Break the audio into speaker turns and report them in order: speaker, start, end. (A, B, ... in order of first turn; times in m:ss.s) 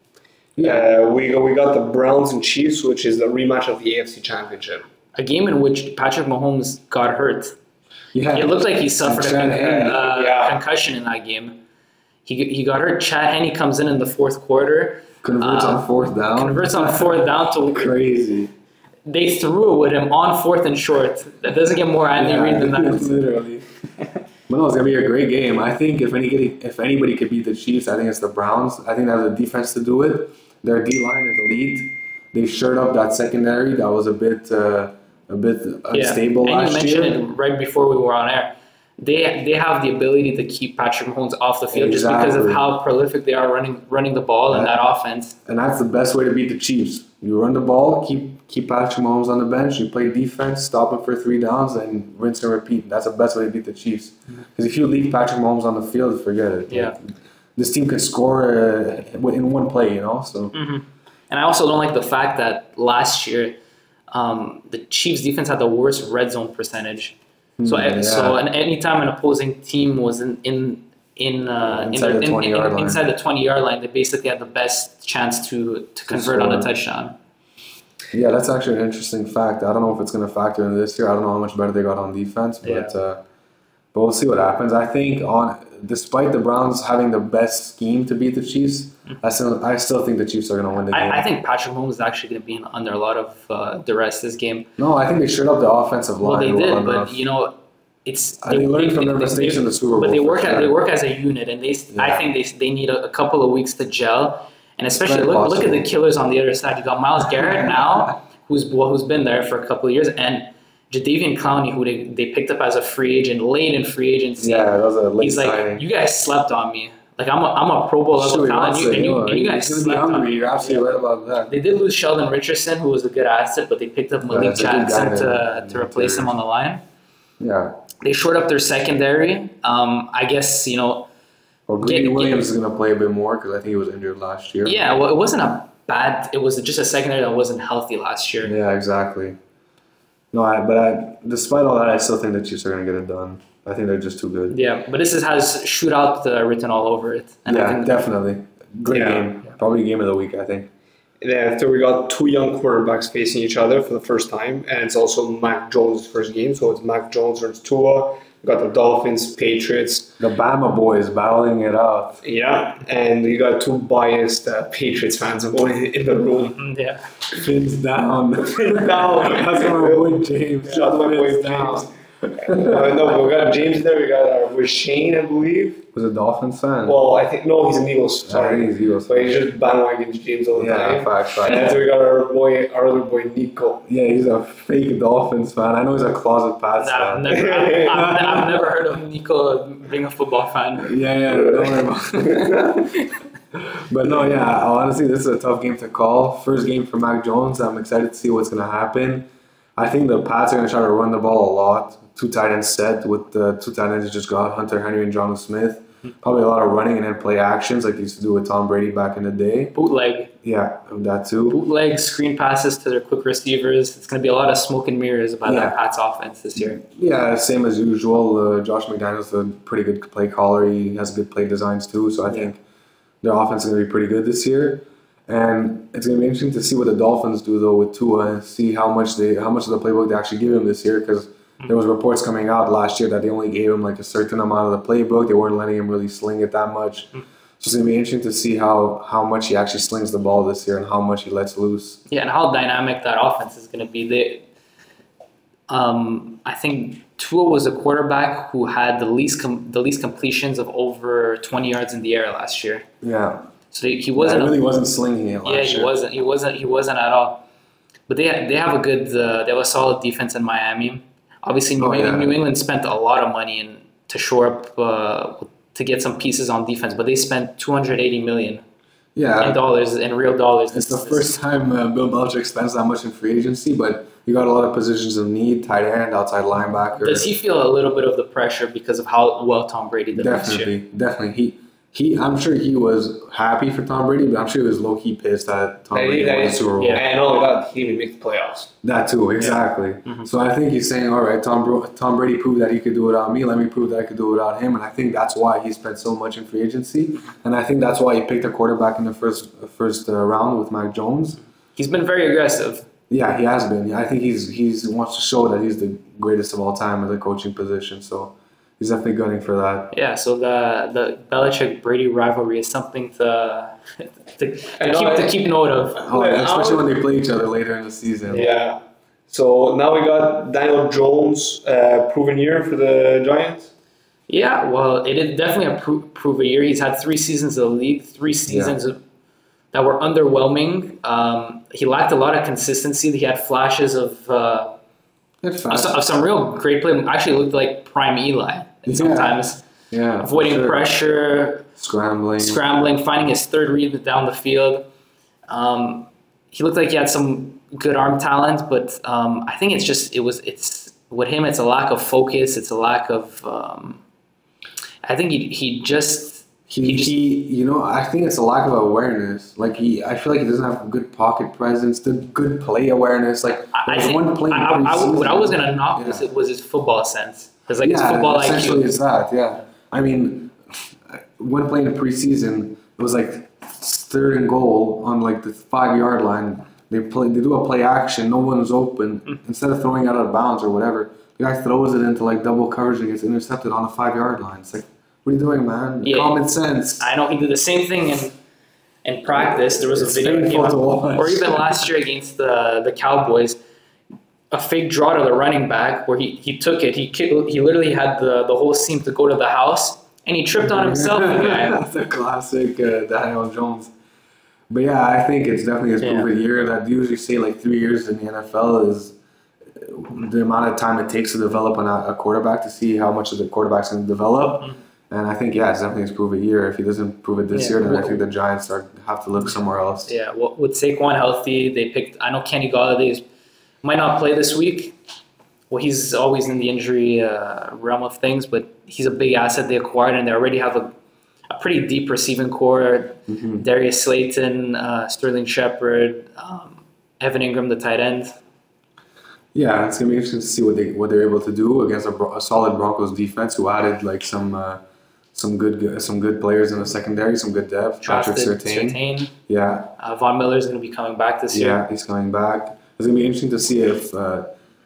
0:00.6-0:00.9 A
0:00.6-0:04.9 B
0:05.2-0:07.6 C
0:08.1-0:10.0 A
0:08.3-0:11.6 C
0:09.9-0:10.6 B
0:12.2-0:17.9 C
0:15.2-0:18.5 A
0:19.1-0:23.2 C
0:22.2-0:23.7 A
0:24.5-0:37.2 A
0:35.9-0:45.4 C
0:41.7-0:42.7 A
0:44.5-0:44.8 A
0:45.5-0:57.0 A
0:56.7-0:57.0 C
0:57.6-1:00.6 A
1:00.5-1:03.6 C
1:04.1-1:17.2 C
1:07.6-1:08.4 A
1:11.6-1:13.0 A
1:16.1-1:16.7 A
1:18.1-1:23.2 A
1:22.6-1:23.0 C
1:23.9-1:31.2 A
1:30.9-1:34.7 C
1:34.8-1:37.2 A
1:36.2-2:00.9 C
1:38.4-1:40.8 A
1:41.9-1:42.3 A
1:45.0-1:45.9 A
1:47.3-1:48.1 A
1:54.4-1:55.8 A
1:58.1-2:01.5 A
2:01.5-2:06.8 C
2:04.3-2:06.3 A
2:07.4-2:07.8 A
2:08.0-2:11.1 C
2:11.7-2:14.8 A
2:11.8-2:12.5 C
2:14.6-2:18.6 C
2:18.4-2:19.4 A
2:20.3-2:24.6 A
2:24.5-2:28.0 C
2:27.5-2:30.7 A
2:28.9-2:29.3 B
2:31.2-2:40.2 B
2:40.2-2:42.2 A
2:42.2-2:46.6 B
2:46.6-2:47.0 C
2:47.3-2:53.1 A
2:48.5-2:55.8 B
2:55.9-2:57.0 A
2:56.8-3:03.8 B
2:58.2-2:59.4 A
3:00.6-3:01.8 A
3:03.8-3:07.3 A
3:06.8-3:10.9 C
3:07.3-3:08.1 B
3:07.9-3:08.5 A
3:10.8-3:12.9 A
3:11.3-3:11.8 B
3:12.3-3:12.7 B
3:13.7-3:29.8 A
3:29.8-3:30.3 C
3:30.4-3:31.6 A
3:31.5-3:36.8 C
3:35.4-3:35.8 A
3:36.6-3:42.6 A
3:43.2-4:02.0 A
4:02.1-4:04.4 C
4:05.7-4:12.9 C
4:13.0-4:13.4 A
4:13.7-4:14.6 C
4:14.2-4:15.9 A
4:15.4-4:17.4 C
4:18.1-4:28.6 C
4:21.8-4:22.4 A
4:29.2-4:29.6 A
4:29.4-4:31.4 C
4:30.7-4:37.3 A
4:37.0-4:40.8 C
4:40.1-4:47.0 A
4:45.9-4:48.7 B
4:46.8-4:47.0 C
4:48.8-5:01.4 A
4:49.4-4:50.3 C
5:01.8-5:02.9 C
5:03.1-5:10.0 A
5:09.9-5:16.0 C
5:14.8-5:15.5 B
5:16.0-5:18.5 A
5:16.0-5:16.9 B
5:18.3-5:23.7 B
5:24.3-5:29.0 C
5:28.5-5:28.8 A
5:29.7-5:34.8 C
5:35.4-5:36.0 A
5:35.7-5:39.6 C
5:38.9-5:40.9 A
5:40.2-5:41.7 C
5:41.8-5:42.6 A
5:42.4-5:44.9 C
5:45.5-5:54.0 C
5:55.0-5:57.2 C
5:56.7-6:06.3 A
6:03.7-6:08.9 C
6:07.8-6:10.6 A
6:11.1-6:27.1 A
6:26.0-6:26.4 C
6:27.0-6:28.4 C
6:29.0-6:33.6 C
6:29.5-6:31.8 A
6:34.5-6:41.8 C
6:40.6-6:43.9 A
6:44.7-6:49.2 A
6:46.0-6:46.3 C
6:49.8-7:00.1 A
6:57.5-6:58.3 C
7:00.1-7:03.2 C
7:03.8-7:05.0 C
7:05.7-7:10.9 C
7:11.5-7:18.4 C
7:13.3-7:13.7 A
7:19.5-7:24.8 A
7:25.3-7:29.9 A
7:28.0-7:29.3 C
7:30.0-7:31.8 C
7:31.5-7:34.6 A